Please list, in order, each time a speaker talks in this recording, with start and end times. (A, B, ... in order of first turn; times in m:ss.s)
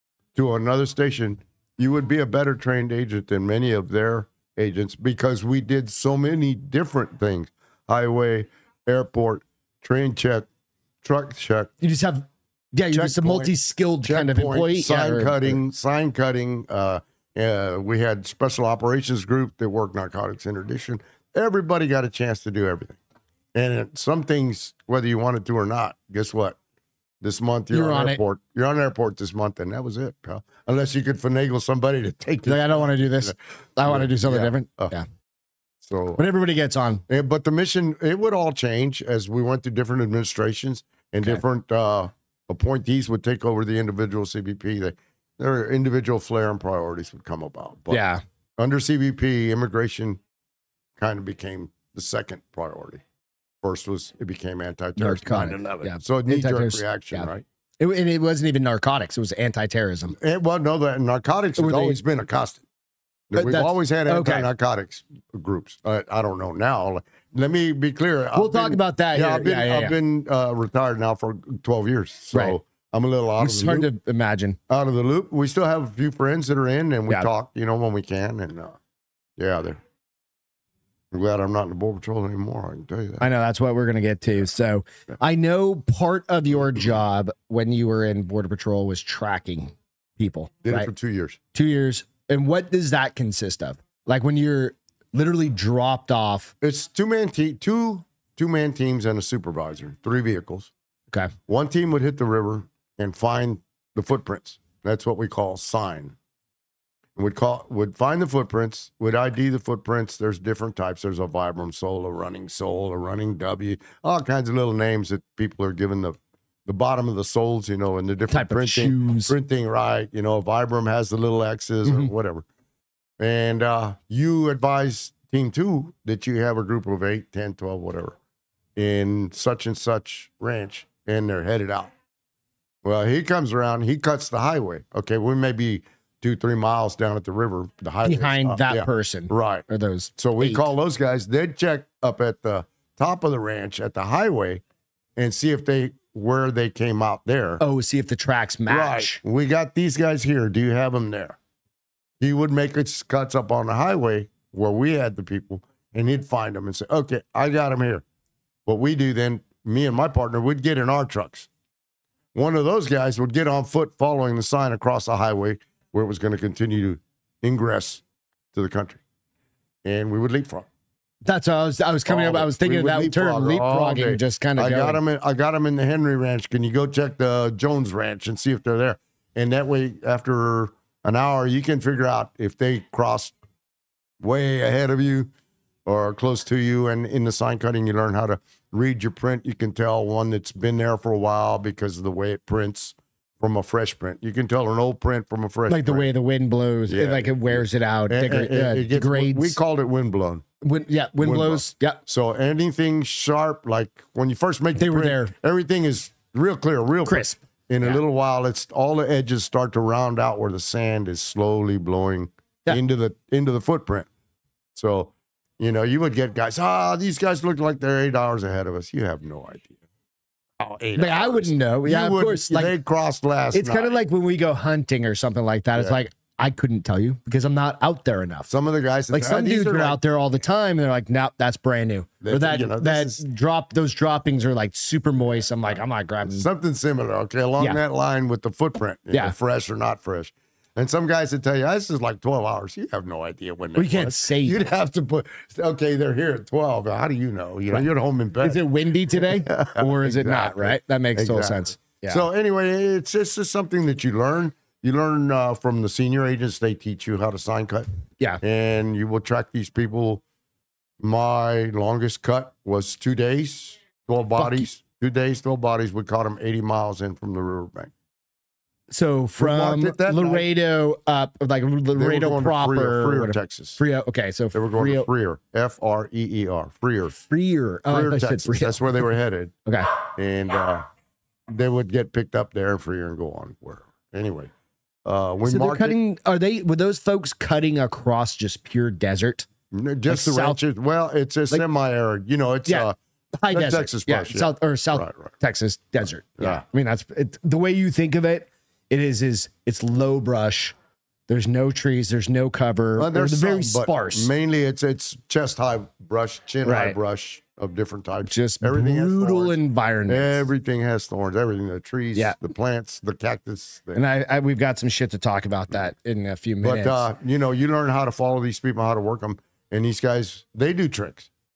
0:00.3-0:10.5 A
0:11.0-0:11.7 A
0:11.8-0:15.6 B
0:12.9-0:23.0 A
0:23.5-0:26.6 A
0:27.2-0:34.9 A
0:27.7-0:28.2 B
0:32.4-0:35.0 B
0:35.8-0:36.2 A
0:36.2-0:37.0 B
0:37.1-0:48.0 A
0:47.9-0:48.2 B
0:48.6-0:50.2 A
0:51.0-0:53.0 A
0:53.6-0:57.4 A
0:55.0-0:57.3 B
0:57.8-1:00.2 B
1:00.1-1:02.6 A
1:01.6-1:02.0 B
1:03.3-1:13.9 A
1:03.4-1:04.5 B
1:08.3-1:09.9 B
1:12.3-1:12.6 B
1:13.4-1:14.6 B
1:14.7-1:18.8 A
1:19.4-1:19.8 A
1:21.1-1:23.3 A
1:23.2-1:30.9 B
1:30.6-1:31.4 A
1:31.5-1:36.5 B
1:36.6-1:40.7 A
1:41.5-1:46.1 A
1:47.2-2:02.4 A
1:58.3-1:59.4 B
2:03.2-2:08.2 A
2:08.8-2:11.9 A
2:12.8-2:19.6 A
2:18.0-2:20.6 B
2:20.2-2:24.6 A
2:25.2-2:27.6 A
2:27.6-2:29.2 B
2:28.7-2:31.4 A
2:32.2-2:38.0 A
2:38.6-2:41.5 A
2:42.3-2:48.0 A
2:48.5-2:49.0 A
2:49.8-2:50.7 A
2:51.2-2:55.0 B
2:52.1-3:03.3 A
3:04.2-3:05.3 A
3:05.8-3:16.1 A
3:15.7-3:19.6 B
3:16.9-3:20.4 A
3:20.6-3:22.0 B
3:21.2-3:34.1 A
3:24.8-3:25.3 B
3:27.0-3:28.0 B
3:34.7-3:39.8 A
3:40.6-3:44.0 A
3:41.0-3:42.7 B
3:43.5-3:48.5 B
3:48.5-3:50.0 A
3:49.1-3:56.5 B
3:52.2-3:53.2 A
3:56.2-4:17.9 A
4:03.8-4:04.6 B
4:08.4-4:12.2 B
4:18.4-4:20.2 A
4:21.0-4:27.9 A
4:24.4-4:24.7 B
4:28.9-4:35.1 B
4:29.4-4:30.5 A
4:31.9-4:33.8 A
4:34.5-4:37.2 A
4:37.2-4:39.0 B
4:37.9-4:39.5 A
4:39.6-4:39.9 B
4:40.1-4:40.8 A
4:41.5-4:44.5 A
4:45.0-4:46.0 A
4:45.4-4:49.5 B
4:49.7-4:52.9 A
4:50.1-4:50.6 B
4:52.6-5:00.7 B
4:53.5-4:55.3 A
5:01.3-5:04.3 B
5:03.0-5:09.6 A
5:06.6-5:07.0 B
5:08.2-5:10.5 B
5:10.1-5:14.0 A
5:13.9-5:17.1 B
5:16.6-5:21.3 A